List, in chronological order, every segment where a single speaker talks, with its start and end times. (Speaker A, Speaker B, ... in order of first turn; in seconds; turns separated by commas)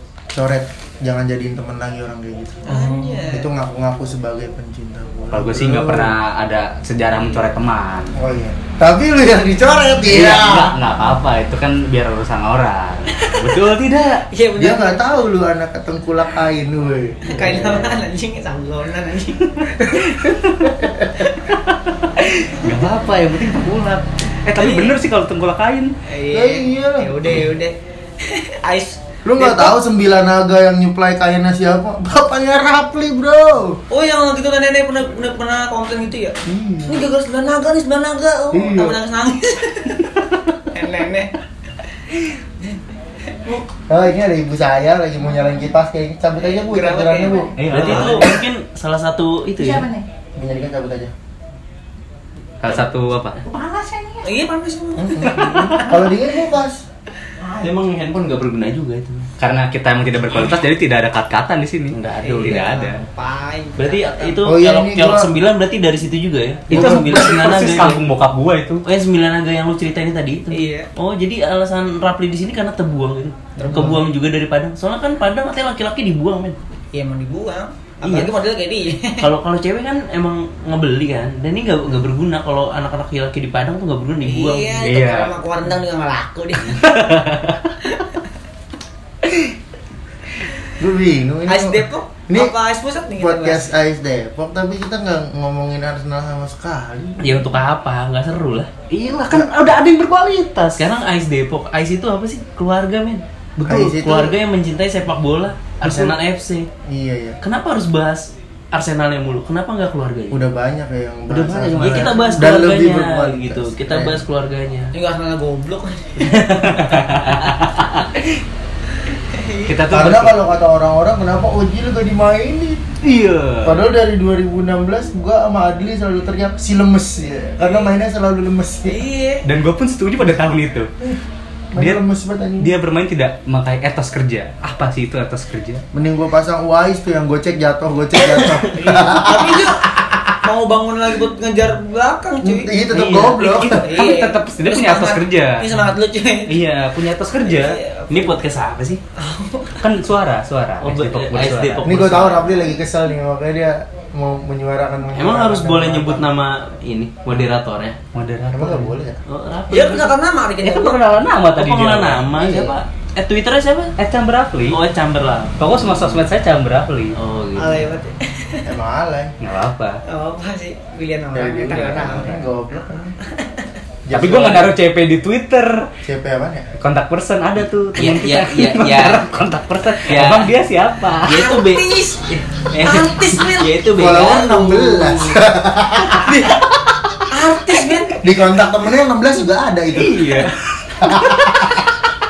Speaker A: 0.3-6.2, Speaker B: 2.6-3.5, Speaker C: 5.3-8.1, Speaker A: 8.2-10.8, Speaker C: 10.0-14.2, Speaker B: 14.3-15.2, Speaker A: 14.6-18.0, Speaker B: 17.2-19.8, Speaker C: 19.8-25.9, Speaker B: 24.5-24.9, Speaker B: 26.1-29.7, Speaker A: 26.3-27.4, Speaker A: 29.2-33.8, Speaker B: 33.9-40.1, Speaker A: 36.4-37.1, Speaker A: 38.5-39.0, Speaker B: 40.6-41.3, Speaker A: 43.9-48.3, Speaker B: 46.4-48.3, Speaker C: 47.6-48.4, Speaker D: 47.6-49.9, Speaker E: 49.6-50.0, Speaker A: 50.4-51.1, Speaker C: 52.6-53.4, Speaker E: 53.4-54.5, Speaker B: 54.2-56.1, Speaker A: 55.0-56.8, Speaker E: 55.6-55.9, Speaker E: 57.4-57.7, Speaker D: 57.6-59.3, Speaker C: 59.4-63.0, Speaker D: 61.9-62.7, Speaker B: 62.2-64.4, Speaker D: 63.8-68.0, Speaker A: 64.4-65.3, Speaker C: 66.7-68.8, Speaker A: 66.7-67.6, Speaker D: 68.8-76.6, Speaker B: 70.5-70.9, Speaker A: 73.6-74.0, Speaker B: 76.9-79.3, Speaker D: 78.0-78.3, Speaker D: 79.2-84.8, Speaker B: 84.2-87.0, Speaker C: 84.8-85.3, Speaker C: 86.7-87.7, Speaker A: 90.8-92.5, Speaker B: 91.5-93.7, Speaker A: 93.2-97.5, Speaker D: 97.2-98.7, Speaker C: 98.9-100.8, Speaker A: 99.3-99.7, Speaker D: 100.7-106.7, Speaker A: 103.6-104.4, Speaker A: 105.8-106.2, Speaker A: 106.8-107.4, Speaker D: 107.4-110.4, Speaker A: 110.3-114.2, Speaker C: 111.3-112.3, Speaker D: 111.4-114.9, Speaker B: 114.9-116.8, Speaker C: 116.2-118.2, Speaker B: 119.1-119.8, Speaker C: 119.7-120.5, Speaker A: 119.9-122.8, Speaker C: 123.0-123.8, Speaker A: 123.6-129.0, Speaker B: 127.6-127.9, Speaker B: 128.8-129.4, Speaker C: 129.4-130.9, Speaker A: 131.7-132.7, Speaker C: 131.7-132.0, Speaker C: 132.6-135.8, Speaker A: 135.9-139.7, Speaker B: 138.8-139.9, Speaker B: 140.4-142.7, Speaker A: 142.4-144.0, Speaker C: 142.9-145.8, Speaker B: 143.7-146.6, Speaker C: 146.5-147.8, Speaker B: 147.4-148.4, Speaker D: 148.1-149.0, Speaker B: 149.2-149.8, Speaker C: 149.8-152.2, Speaker D: 150.8-152.7, Speaker A: 151.8-156.3, Speaker D: 155.1-158.0, Speaker C: 158.1-158.9, Speaker A: 158.5-159.2, Speaker D: 159.3-160.2, Speaker B: 159.7-161.0, Speaker C: 160.6-162.4, Speaker D: 161.5-163.9, Speaker A: 162.3-162.8, Speaker C: 164.0-164.8, Speaker D: 164.7-166.2, Speaker C: 165.6-167.2, Speaker D: 167.2-167.9, Speaker B: 167.6-168.7, Speaker A: 168.6-169.3, Speaker C: 169.4-170.0, Speaker B: 170.1-172.4, Speaker A: 171.3-173.2, Speaker C: 171.7-172.3, Speaker B: 173.3-173.7, Speaker A: 174.0-174.7, Speaker C: 174.1-175.9, Speaker A: 176.0-176.7, Speaker C: 176.8-181.5, Speaker D: 177.9-179.2, Speaker D: 180.1-180.6, Speaker D: 181.2-185.4, Speaker B: 181.3-183.9, Speaker A: 183.9-186.6, Speaker B: 186.0-186.6, Speaker B: 187.3-188.2, Speaker A: 188.1-191.9, Speaker C: 189.9-191.7